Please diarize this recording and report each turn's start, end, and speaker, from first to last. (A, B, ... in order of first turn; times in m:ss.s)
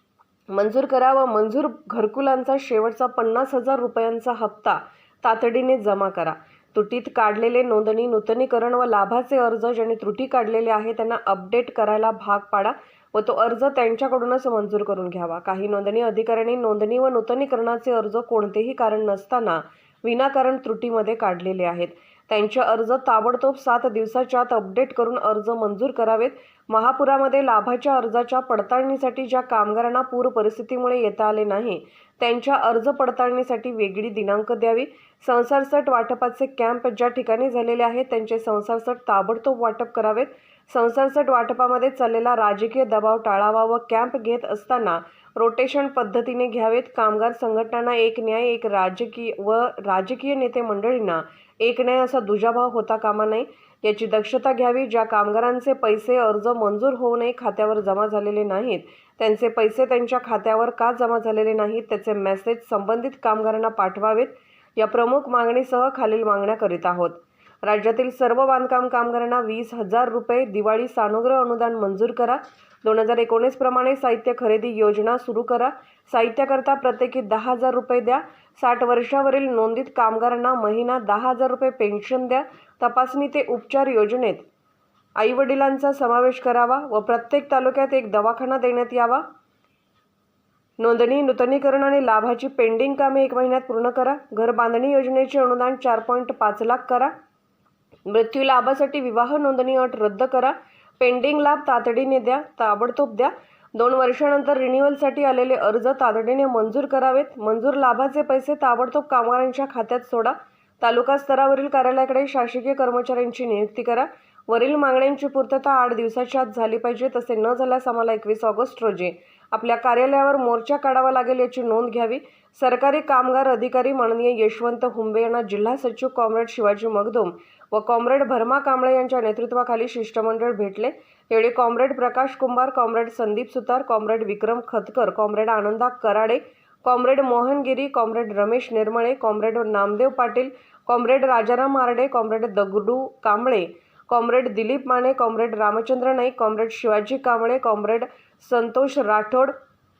0:00.5-1:24.4 A
1:25.2-1:29.2 A
1:30.8-1:37.1 A
1:38.1-2:29.6 A